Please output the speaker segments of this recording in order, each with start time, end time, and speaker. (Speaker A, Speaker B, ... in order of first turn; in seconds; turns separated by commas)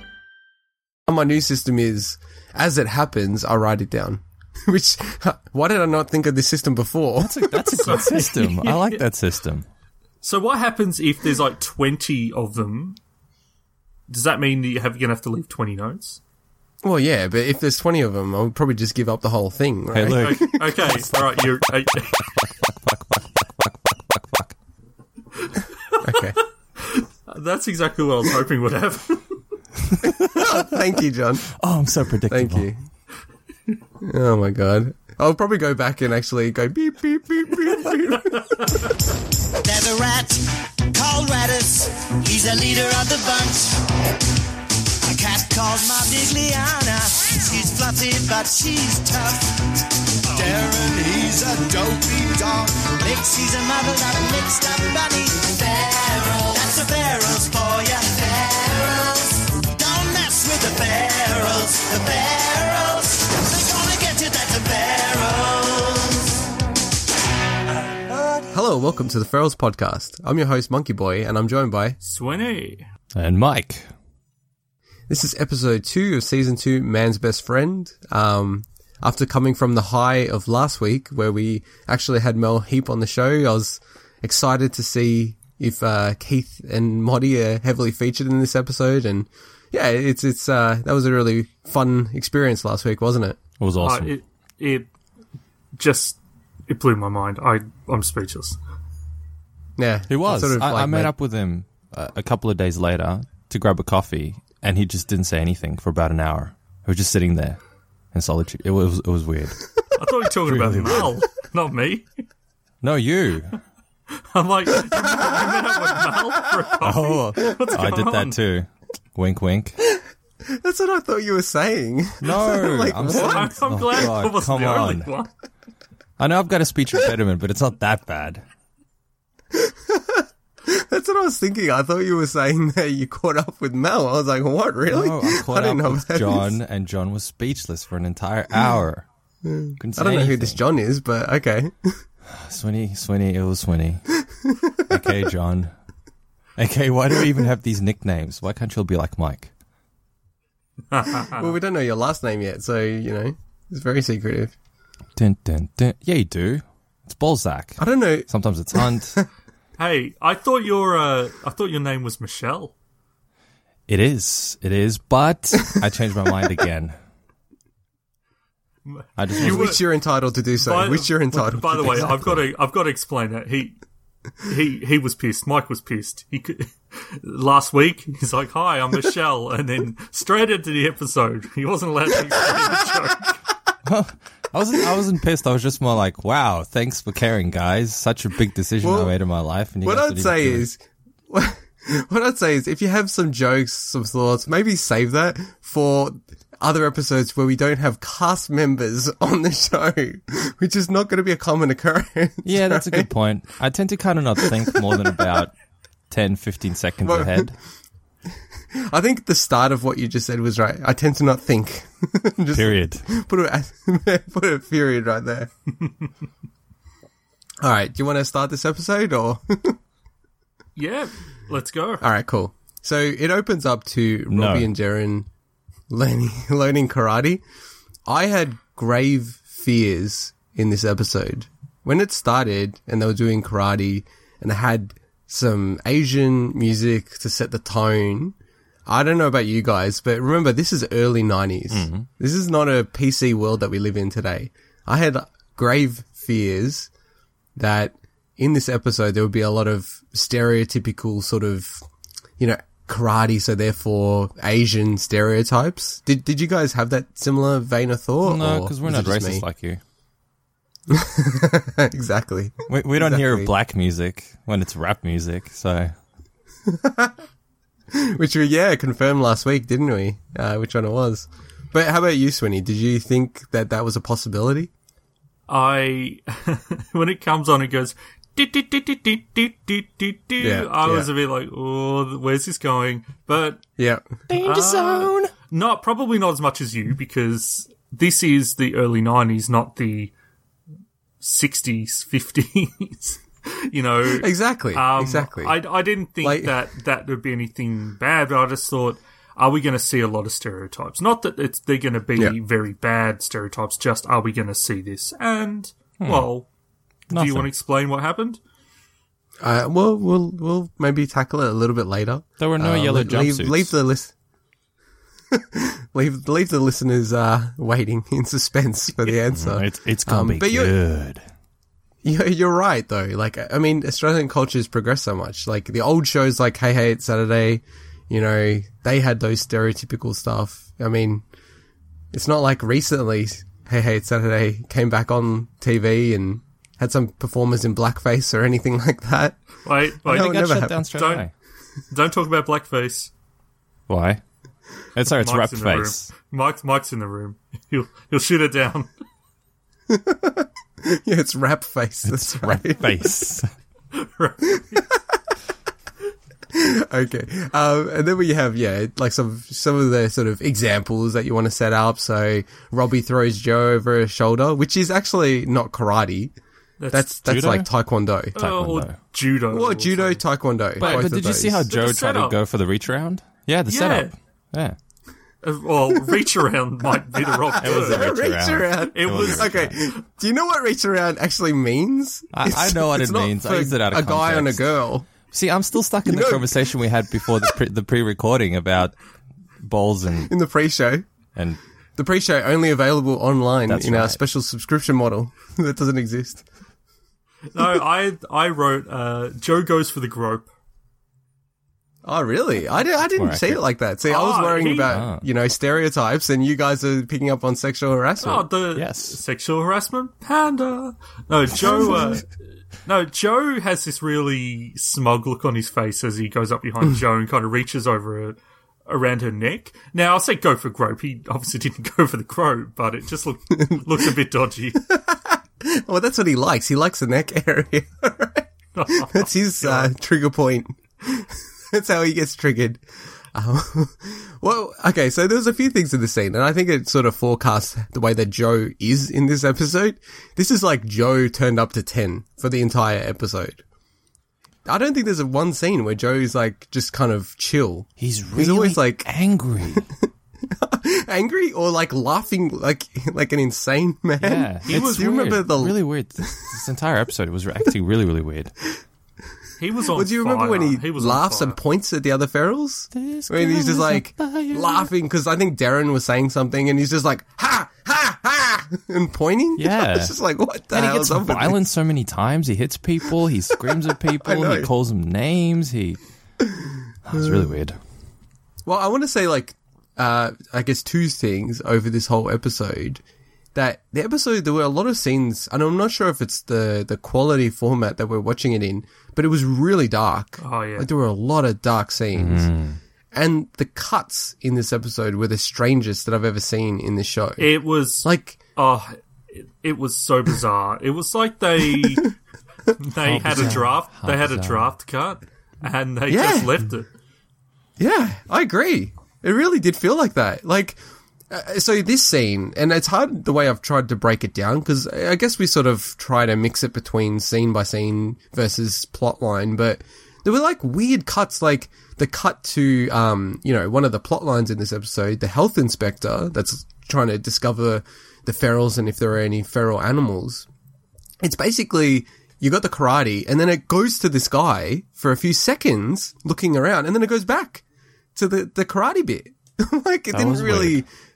Speaker A: 1.1-7.9, Speaker B: 7.2-9.7, Speaker C: 7.7-9.0, Speaker C: 10.2-13.0, Speaker C: 14.1-16.2, Speaker A: 16.8-21.1, Speaker B: 19.9-20.6, Speaker C: 20.1-22.2, Speaker B: 22.4-24.5, Speaker C: 25.4-26.3, Speaker A: 26.0-26.4, Speaker C: 26.8-29.4, Speaker B: 29.9-30.5, Speaker A: 30.2-31.5, Speaker B: 31.6-32.7, Speaker A: 32.3-32.8, Speaker A: 34.0-38.6, Speaker D: 39.6-44.0, Speaker D: 45.0-66.3, Speaker C: 50.3-50.7, Speaker D: 68.1-68.4, Speaker A: 68.5-72.0, Speaker C: 72.0-72.8, Speaker B: 73.1-73.9, Speaker A: 75.1-93.4, Speaker B: 93.6-94.1, Speaker C: 93.8-94.9, Speaker C: 95.8-98.6, Speaker A: 99.8-101.1, Speaker B: 100.1-107.6, Speaker B: 108.1-109.6, Speaker C: 110.0-112.1, Speaker B: 110.5-111.1, Speaker B: 112.8-113.5, Speaker C: 114.3-118.4, Speaker A: 115.0-116.0, Speaker B: 116.8-119.8, Speaker A: 119.9-123.9, Speaker B: 122.2-125.1, Speaker C: 123.0-125.3, Speaker B: 126.2-128.4, Speaker A: 129.5-136.6, Speaker B: 134.9-139.1, Speaker A: 139.4-142.0, Speaker B: 139.8-140.6, Speaker B: 142.3-144.1, Speaker A: 144.4-144.7, Speaker B: 144.9-145.7, Speaker B: 146.6-149.5, Speaker C: 150.9-151.5, Speaker A: 151.3-154.5, Speaker B: 155.2-159.2, Speaker A: 157.8-159.2, Speaker C: 159.8-162.7, Speaker B: 163.9-166.9, Speaker C: 168.9-169.8, Speaker B: 169.2-169.8, Speaker A: 169.4-172.1, Speaker C: 170.6-173.8, Speaker B: 171.8-172.4, Speaker C: 174.4-183.4, Speaker B: 183.8-190.7, Speaker A: 188.8-189.1, Speaker A: 189.8-203.1, Speaker B: 202.4-205.5, Speaker A: 204.5-205.2, Speaker B: 206.1-207.6, Speaker A: 207.0-207.5, Speaker A: 208.7-215.5, Speaker B: 212.5-213.1, Speaker A: 217.6-219.8, Speaker C: 220.8-222.0, Speaker A: 222.0-225.3, Speaker B: 224.3-224.7, Speaker A: 225.9-227.4, Speaker A: 228.1-238.3, Speaker A: 238.8-246.9, Speaker B: 241.7-242.1, Speaker A: 247.6-251.8, Speaker A: 252.4-259.4, Speaker B: 258.2-259.8, Speaker A: 260.9-263.5, Speaker B: 262.7-265.9, Speaker A: 266.6-267.1, Speaker A: 267.9-274.7, Speaker C: 275.5-283.6, Speaker A: 280.4-281.1, Speaker A: 283.8-284.1, Speaker B: 284.3-285.3, Speaker C: 284.4-290.1, Speaker C: 291.2-306.5, Speaker A: 294.1-295.6, Speaker A: 296.2-296.6, Speaker B: 306.0-306.3, Speaker B: 307.1-307.5, Speaker C: 307.1-308.4, Speaker A: 309.4-314.1, Speaker B: 312.4-313.7, Speaker A: 315.3-320.7, Speaker B: 319.3-321.2, Speaker A: 322.0-331.2, Speaker A: 332.1-339.4, Speaker C: 339.6-341.2, Speaker A: 340.0-340.8, Speaker B: 340.1-341.3, Speaker C: 341.9-343.1, Speaker B: 343.9-344.2, Speaker B: 344.9-346.1, Speaker C: 345.0-348.9, Speaker A: 349.9-353.1, Speaker B: 352.0-353.5, Speaker C: 353.9-354.8, Speaker A: 354.6-355.0, Speaker A: 356.5-366.3, Speaker C: 366.8-367.1, Speaker A: 366.9-368.4, Speaker B: 367.2-367.7, Speaker B: 368.3-369.0, Speaker C: 368.4-370.2, Speaker A: 369.5-371.7, Speaker C: 370.8-371.1, Speaker B: 370.8-374.8, Speaker C: 371.7-372.4, Speaker C: 373.7-374.1, Speaker C: 375.4-378.0, Speaker A: 377.2-385.1, Speaker B: 377.6-379.8, Speaker C: 378.9-379.5, Speaker B: 382.3-384.6, Speaker B: 385.1-388.9, Speaker A: 386.1-387.5, Speaker B: 389.6-390.3, Speaker A: 390.2-391.0, Speaker A: 392.0-396.4, Speaker B: 393.7-394.2, Speaker C: 397.5-400.5, Speaker A: 402.0-408.5, Speaker B: 403.1-403.6, Speaker C: 404.0-404.9, Speaker B: 404.9-405.2, Speaker C: 408.2-412.3, Speaker B: 408.8-409.2, Speaker A: 411.6-412.2, Speaker C: 412.8-424.8, Speaker A: 424.9-443.6, Speaker C: 428.7-429.9, Speaker A: 444.6-449.1, Speaker B: 448.0-449.9, Speaker A: 450.4-456.3, Speaker B: 454.2-458.5, Speaker C: 454.6-455.1, Speaker C: 459.6-461.6, Speaker A: 459.9-471.7, Speaker B: 462.9-464.9, Speaker B: 469.6-470.1, Speaker B: 470.7-476.0, Speaker A: 473.6-474.7, Speaker A: 476.4-477.4, Speaker B: 477.0-477.8, Speaker A: 478.6-483.0, Speaker A: 483.5-492.5, Speaker C: 490.4-490.9, Speaker B: 492.1-492.8, Speaker A: 493.1-498.4, Speaker C: 497.4-502.1, Speaker C: 502.8-506.9, Speaker B: 503.0-504.7, Speaker A: 503.3-503.5, Speaker A: 506.1-506.6, Speaker A: 507.8-530.5, Speaker A: 531.2-537.6, Speaker A: 538.1-540.9, Speaker B: 540.1-540.8